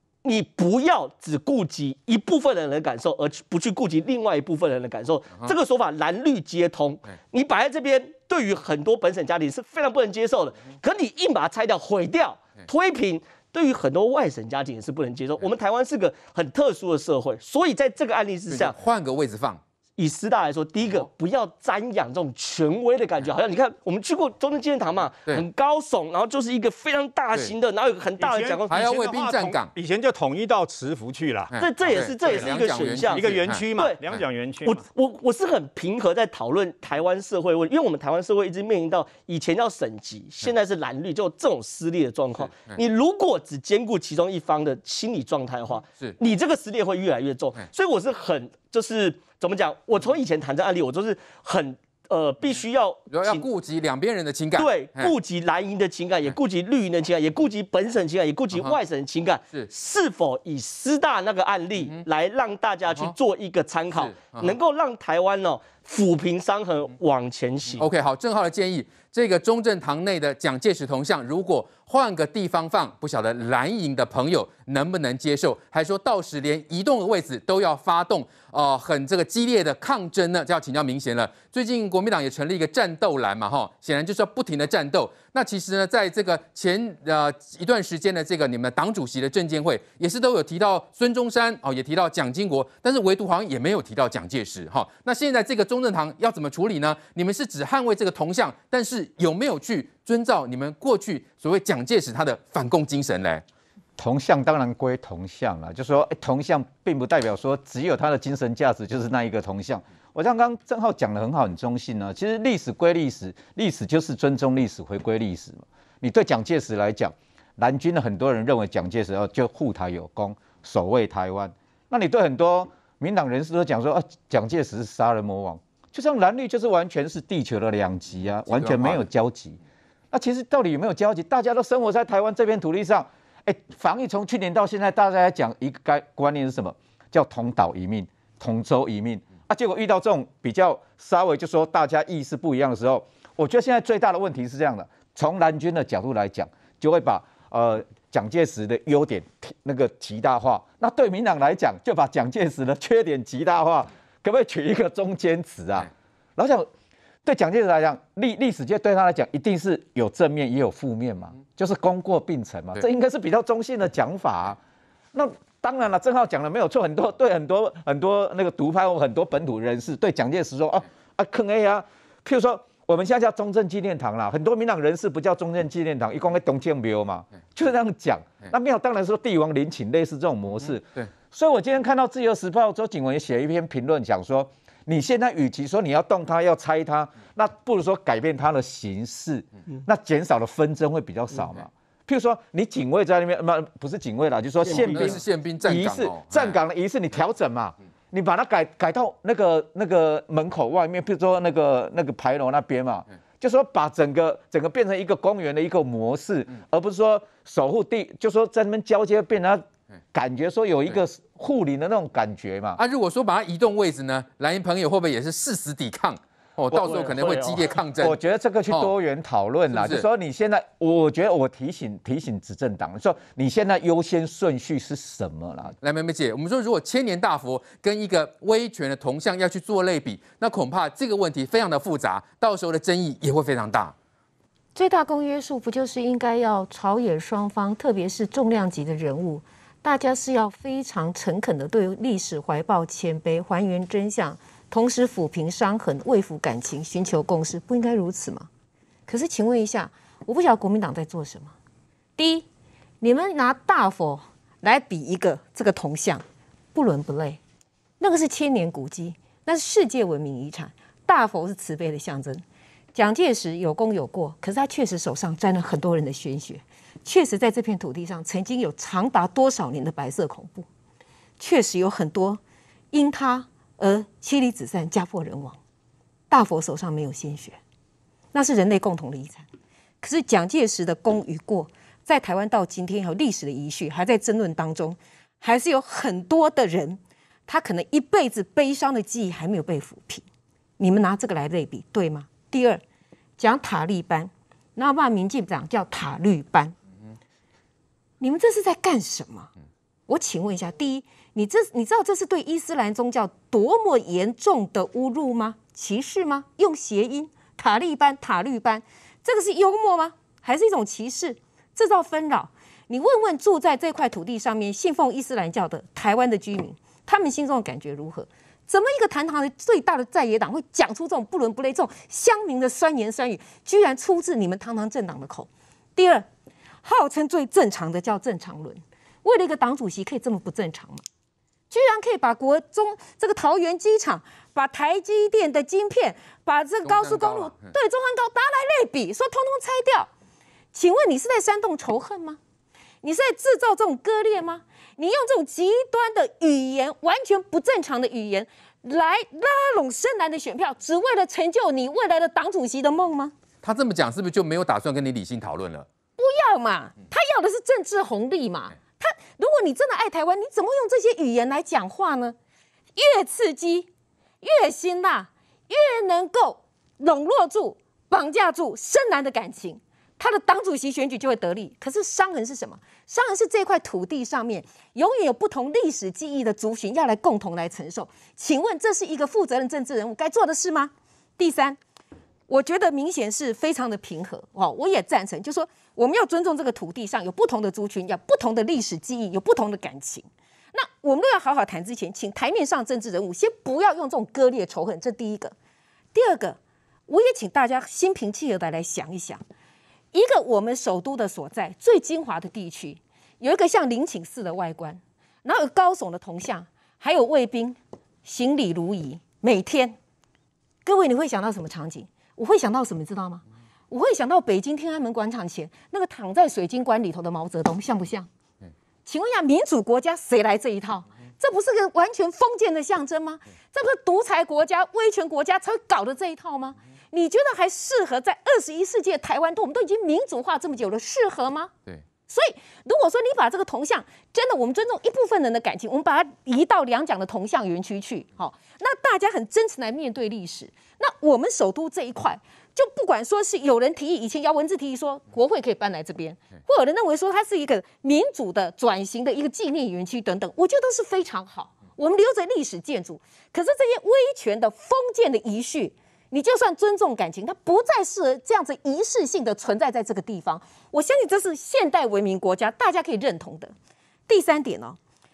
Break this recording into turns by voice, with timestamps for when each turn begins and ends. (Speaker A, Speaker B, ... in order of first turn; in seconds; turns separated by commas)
Speaker A: 0.2-18.8, Speaker B: 18.5-19.6, Speaker A: 20.0-28.7, Speaker C: 28.2-31.5, Speaker B: 28.7-29.7, Speaker B: 31.5-33.6, Speaker A: 31.6-34.0, Speaker C: 32.2-34.8, Speaker A: 34.6-53.5, Speaker B: 53.1-55.1, Speaker A: 54.5-67.9, Speaker B: 63.9-64.5, Speaker B: 67.8-103.4, Speaker D: 104.0-129.6, Speaker B: 128.5-129.0, Speaker D: 130.1-156.7, Speaker D: 157.2-164.6, Speaker D: 165.1-212.8, Speaker B: 194.6-196.6, Speaker A: 194.7-195.2, Speaker B: 212.8-218.2, Speaker A: 216.7-217.8, Speaker D: 218.0-225.7, Speaker B: 219.7-220.0, Speaker B: 225.8-233.9, Speaker E: 234.7-248.5, Speaker E: 249.1-251.5, Speaker E: 252.2-252.4, Speaker E: 253.0-256.2, Speaker E: 256.7-257.4, Speaker E: 258.0-262.4, Speaker E: 262.9-270.7, Speaker E: 271.4-272.4, Speaker E: 272.9-275.6, Speaker E: 276.3-277.6, Speaker E: 278.3-279.4, Speaker E: 280.0-290.2, Speaker E: 290.8-292.8, Speaker E: 293.4-296.7, Speaker E: 298.2-299.5, Speaker E: 300.1-326.2, Speaker E: 326.8-331.0, Speaker E: 331.7-340.1, Speaker B: 336.9-337.7, Speaker E: 340.7-342.4, Speaker E: 343.0-353.3, Speaker B: 353.6-355.9, Speaker E: 356.2-362.4, Speaker E: 362.9-363.9, Speaker E: 364.4-381.8, Speaker E: 382.5-395.5, Speaker E: 396.1-399.4, Speaker E: 400.1-409.9, Speaker E: 410.9-418.3, Speaker E: 419.1-431.7, Speaker E: 432.3-463.7, Speaker E: 464.3-465.0